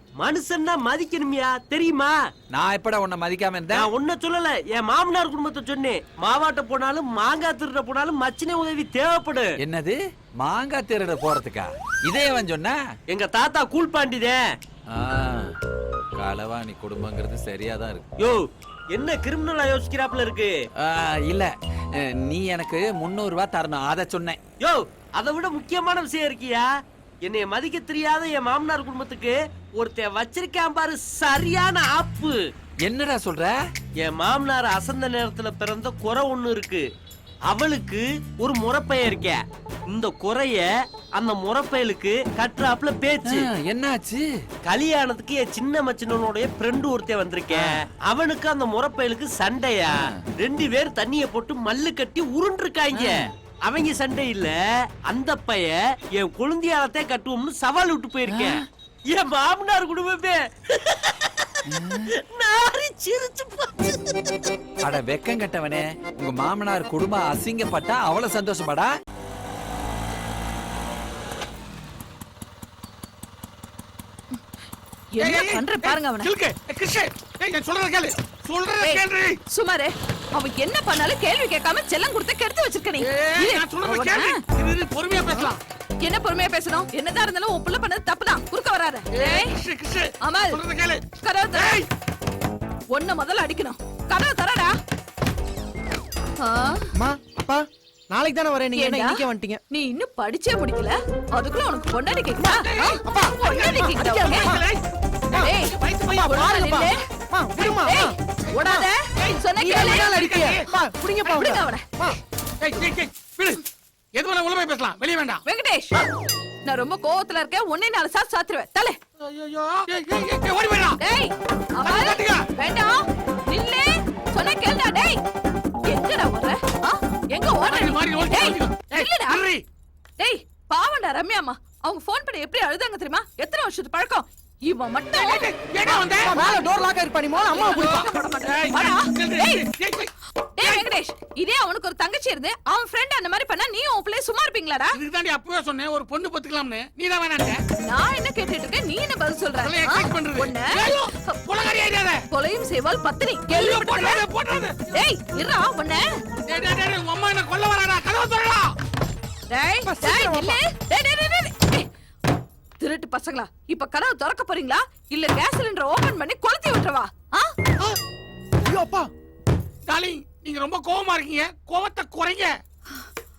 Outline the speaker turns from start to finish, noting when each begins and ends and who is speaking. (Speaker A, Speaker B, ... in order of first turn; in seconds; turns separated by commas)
Speaker A: 0.2-2.1, Speaker B: 2.5-3.9, Speaker A: 3.9-9.5, Speaker B: 9.6-12.8, Speaker A: 13.1-14.4, Speaker B: 14.9-15.5, Speaker B: 16.2-18.1, Speaker A: 18.9-20.5, Speaker B: 20.8-21.5, Speaker B: 22.0-24.4, Speaker A: 24.6-26.7, Speaker A: 27.2-32.4, Speaker B: 32.9-33.5, Speaker A: 34.0-36.8, Speaker A: 37.5-39.4, Speaker A: 39.9-40.7, Speaker A: 41.2-43.5, Speaker B: 43.2-44.3, Speaker A: 44.7-54.6, Speaker B: 47.5-47.9, Speaker B: 52.9-53.3, Speaker A: 55.1-61.4, Speaker B: 58.3-58.6, Speaker B: 61.7-62.1, Speaker A: 62.4-63.9, Speaker B: 64.8-68.9, Speaker C: 75.2-79.4, Speaker D: 75.2-76.3, Speaker D: 78.8-84.4, Speaker C: 83.0-85.6, Speaker D: 86.0-89.6, Speaker C: 89.1-91.9, Speaker D: 90.2-90.6, Speaker D: 91.2-91.8, Speaker D: 92.9-94.7, Speaker D: 96.4-96.8, Speaker E: 97.0-99.6, Speaker D: 98.8-99.2, Speaker D: 99.7-104.5, Speaker C: 102.4-106.5, Speaker E: 103.1-103.4, Speaker E: 104.3-104.6, Speaker D: 105.4-106.9, Speaker E: 106.2-108.2, Speaker D: 107.9-110.0, Speaker C: 109.2-110.7, Speaker E: 109.6-112.2, Speaker D: 111.5-111.8, Speaker C: 112.6-113.6, Speaker C: 114.2-115.4, Speaker D: 115.5-116.0, Speaker D: 116.7-119.0, Speaker C: 119.2-121.0, Speaker D: 121.0-123.0, Speaker C: 121.8-122.5, Speaker D: 123.5-125.2, Speaker D: 125.9-129.4, Speaker C: 127.6-129.6, Speaker D: 130.2-136.6, Speaker C: 135.1-136.4, Speaker E: 136.3-138.0, Speaker D: 137.5-139.6, Speaker C: 137.6-140.9, Speaker D: 140.6-145.0, Speaker C: 144.9-147.6, Speaker D: 147.9-151.4, Speaker C: 149.6-152.2, Speaker D: 152.3-154.3, Speaker C: 153.5-154.8, Speaker D: 154.9-156.0, Speaker C: 156.5-158.8, Speaker D: 159.5-161.9, Speaker E: 159.8-160.6, Speaker D: 162.8-167.5, Speaker E: 168.7-169.1, Speaker C: 169.9-172.6